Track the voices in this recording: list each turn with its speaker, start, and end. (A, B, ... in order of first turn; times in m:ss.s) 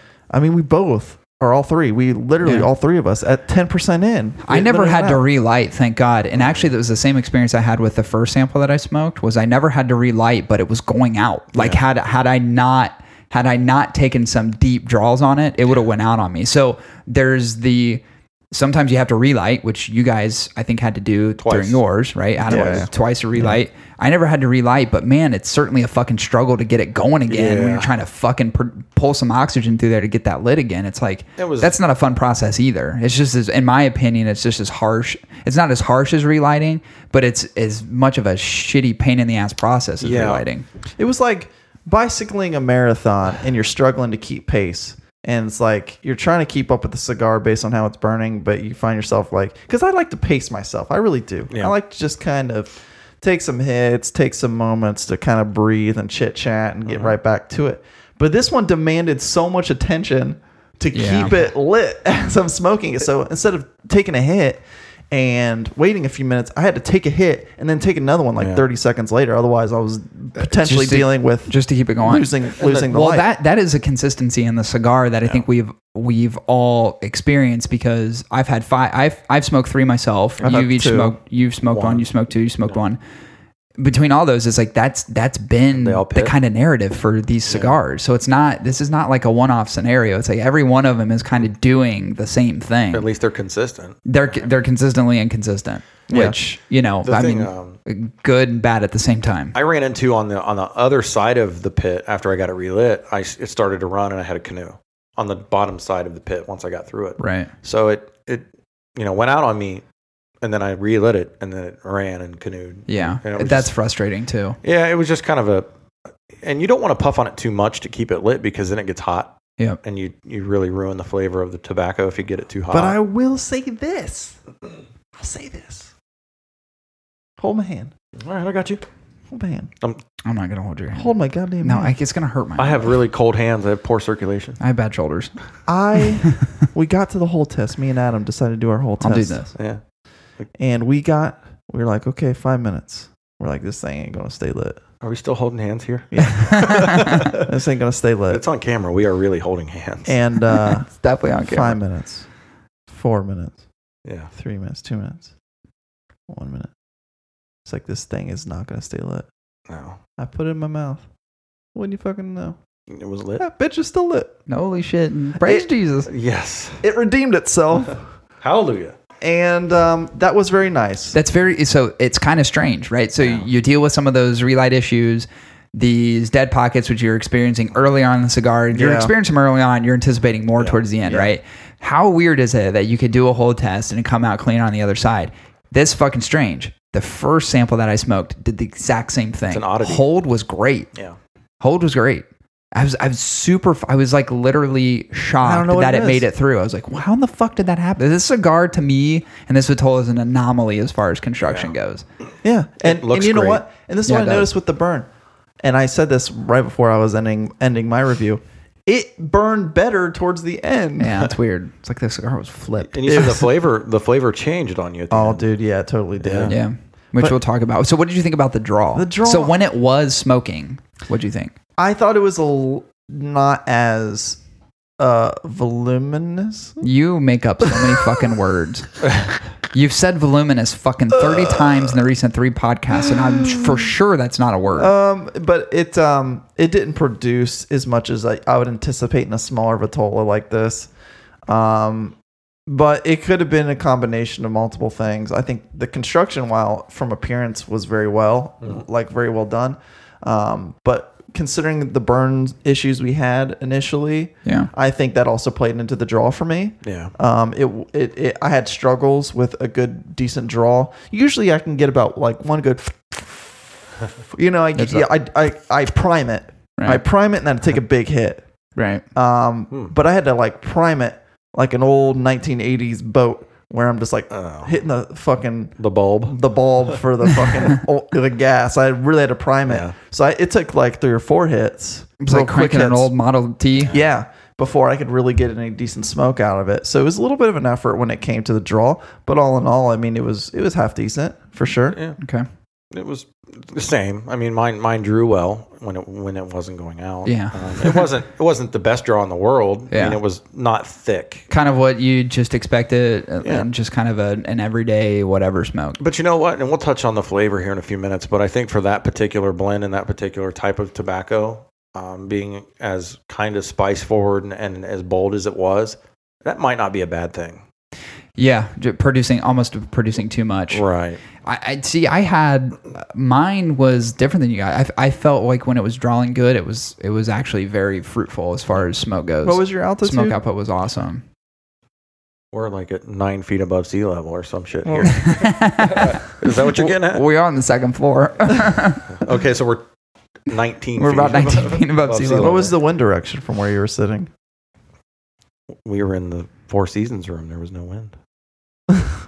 0:00.3-0:05.2 A
0:02.4-0:02.7 B
0:04.4-0:40.6 B
0:11.5-0:11.8 C
0:21.4-0:21.8 C
0:22.4-0:22.9 C
0:22.5-0:22.9 A
0:27.3-0:27.9 C
0:31.4-0:31.8 C
0:40.0-0:40.4 C
0:41.0-1:13.3 A
0:51.5-0:51.7 C
0:56.8-0:57.2 C
1:00.9-1:01.4 B
1:08.4-1:08.6 C
1:10.4-1:23.0 B
1:20.4-1:21.2 A
1:21.7-1:22.1 C
1:23.8-1:33.1 B
1:25.7-1:26.3 C
1:27.5-1:27.8 C
1:32.9-1:34.0 C
1:34.0-1:39.6 B
1:36.1-1:36.3 A
1:37.0-1:37.8 C
1:39.5-1:48.4 C
1:47.2-1:47.5 B
1:49.0-1:49.8 C
1:50.4-1:53.7 C
1:52.9-1:54.6 B
1:54.6-1:55.7 C
1:56.4-2:03.0 C
2:02.7-2:04.4 A
2:05.2-2:05.9 A
2:07.4-2:07.9 A
2:08.2-2:08.8 C
2:09.3-2:09.7 A
2:10.2-2:13.0 B
2:10.9-2:11.9 A
2:12.6-2:14.6 C
2:14.6-2:15.3 B
2:15.7-2:19.4 A
2:16.2-2:16.5 B
2:19.0-2:19.5 B
2:19.5-2:19.8 C
2:20.6-2:24.8 A
2:25.0-2:27.5 C
2:26.1-2:28.4 A
2:26.2-2:27.2 B
2:28.3-2:30.2 C
2:30.0-2:30.9 A
2:30.5-2:31.8 B
2:31.4-2:32.3 A
2:32.9-2:33.6 A
2:34.3-2:35.3 A
2:36.3-2:36.7 A
2:37.6-2:39.3 A
2:39.7-2:40.0 C
2:40.2-2:41.0 A
2:41.7-2:42.6 A
2:42.9-2:43.4 C
2:43.4-2:44.3 A
2:44.5-2:46.1 B
2:45.4-2:45.7 A
2:46.1-2:46.8 C
2:46.8-2:48.0 A
2:48.4-2:48.9 C
2:49.2-2:51.2 A
2:51.1-3:10.9 B
2:53.2-2:53.5 C
2:58.7-2:59.1 A
3:01.0-3:01.3 A
3:09.5-3:10.0 C
3:11.6-3:22.0 B
3:15.4-3:16.3 A
3:21.4-3:21.7 C
3:22.4-3:25.1 A
3:22.8-3:23.6 C
3:24.0-3:24.5 B
3:25.6-3:31.2 A
3:31.0-3:33.4 B
3:32.9-3:35.4 C
3:33.0-3:33.5 A
3:35.1-3:36.6 A
3:36.2-3:36.5 C
3:36.5-3:41.5 B
3:38.9-3:39.6 A
3:41.8-3:44.4 A
3:45.0-3:46.8 A
3:46.8-3:49.1 B
3:47.7-3:48.0 A
3:49.7-3:54.9 B
3:51.1-3:52.0 A
3:53.4-3:53.7 A
3:54.8-4:00.9 A
4:01.5-4:02.2 A
4:02.7-4:23.7 A
4:14.4-4:14.7 B
4:16.8-4:17.1 C
4:24.3-4:28.4 A
4:24.8-4:25.1 B
4:26.8-4:27.0 B
4:28.8-4:29.0 B
4:29.1-4:35.7 A
4:34.3-4:34.7 C
4:35.8-4:36.4 C
4:36.2-4:43.1 A
4:39.7-4:39.9 C
4:42.2-4:43.9 B
4:43.9-4:52.0 A
4:51.9-4:52.2 C
4:52.2-4:52.4 B
4:52.9-5:01.5 C
4:57.2-4:58.1 B
4:59.9-5:00.2 B
5:01.5-5:06.0 B
5:03.4-5:03.7 C
5:06.0-5:17.6 C
5:18.4-5:20.8 B
5:20.7-5:21.2 C
5:21.4-5:31.2 B
5:29.4-5:30.4 A
5:32.5-5:37.2 C
5:34.8-5:35.5 A
5:35.0-5:39.1 B
5:39.1-5:39.8 C
5:40.4-5:42.7 C
5:41.0-5:42.7 B
5:42.3-5:44.3 A
5:45.8-5:48.1 C